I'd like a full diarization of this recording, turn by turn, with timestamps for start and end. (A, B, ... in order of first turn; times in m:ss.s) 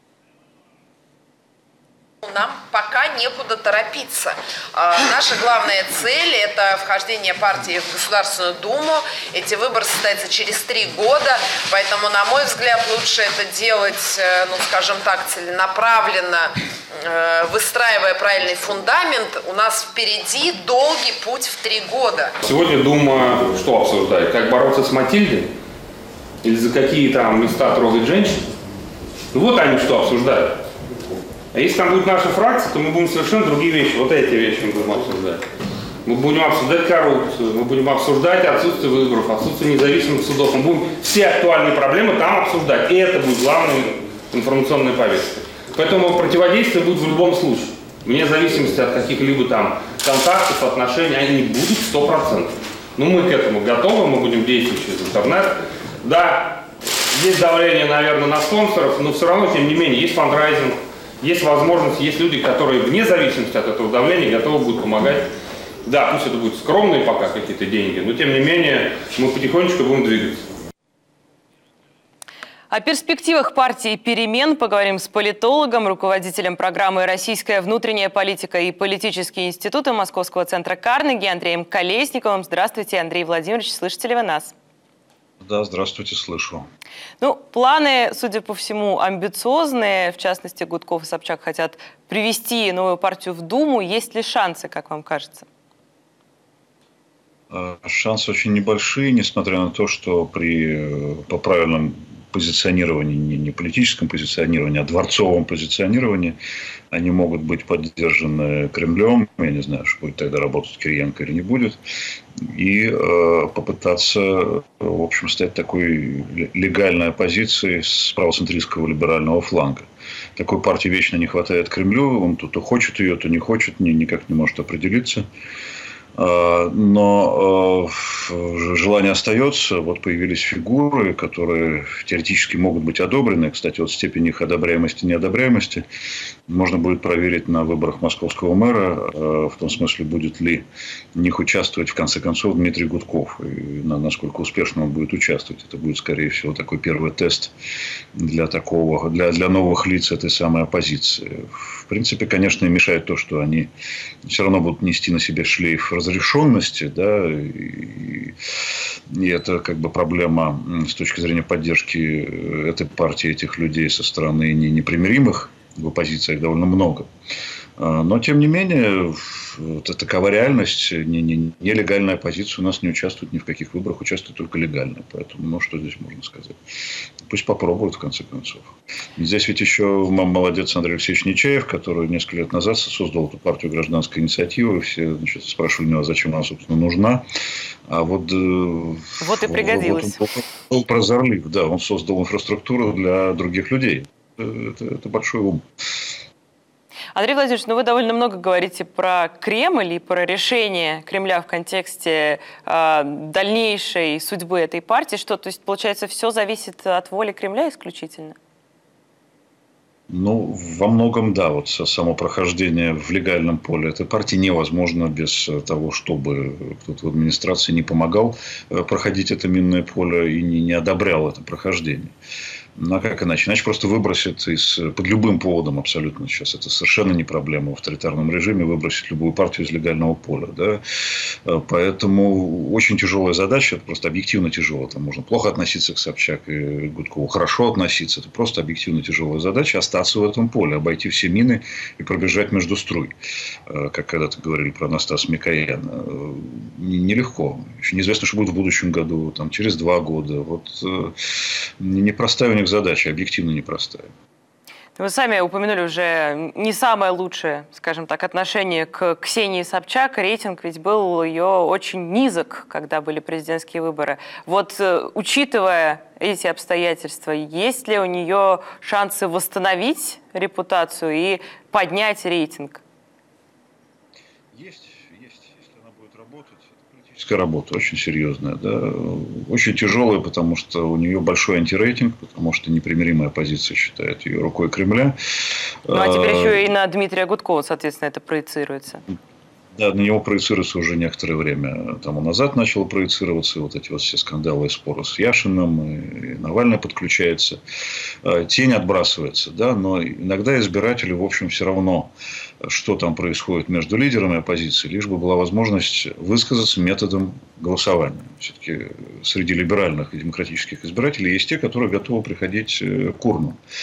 0:02.2-0:22.3 A
0:22.4-0:25.5 B
0:26.4-0:28.4 B
0:29.3-0:30.6 B
0:31.5-0:35.4 B
0:36.0-1:05.3 B
1:05.8-1:10.4 B
1:12.7-1:24.6 C
1:25.4-1:26.7 D
1:27.2-1:35.5 C
1:37.5-1:46.4 D
1:46.9-1:51.8 D
1:52.4-2:05.2 D
2:06.2-2:15.8 D
2:16.5-2:27.5 D
2:28.2-2:33.7 D
2:34.3-2:38.4 D
2:39.1-2:47.1 D
2:47.8-2:56.6 D
2:57.3-3:07.3 D
3:07.9-3:15.6 D
3:09.2-3:10.2 C
3:17.1-3:28.4 C
3:30.1-3:42.1 D
3:42.8-4:03.2 D
4:03.7-4:14.1 D
4:15.0-4:32.8 C
4:34.5-4:45.2 D
4:45.9-4:46.6 D
4:45.9-4:49.0 C
4:49.8-4:57.6 D
4:58.2-5:02.1 D
5:02.6-5:13.6 D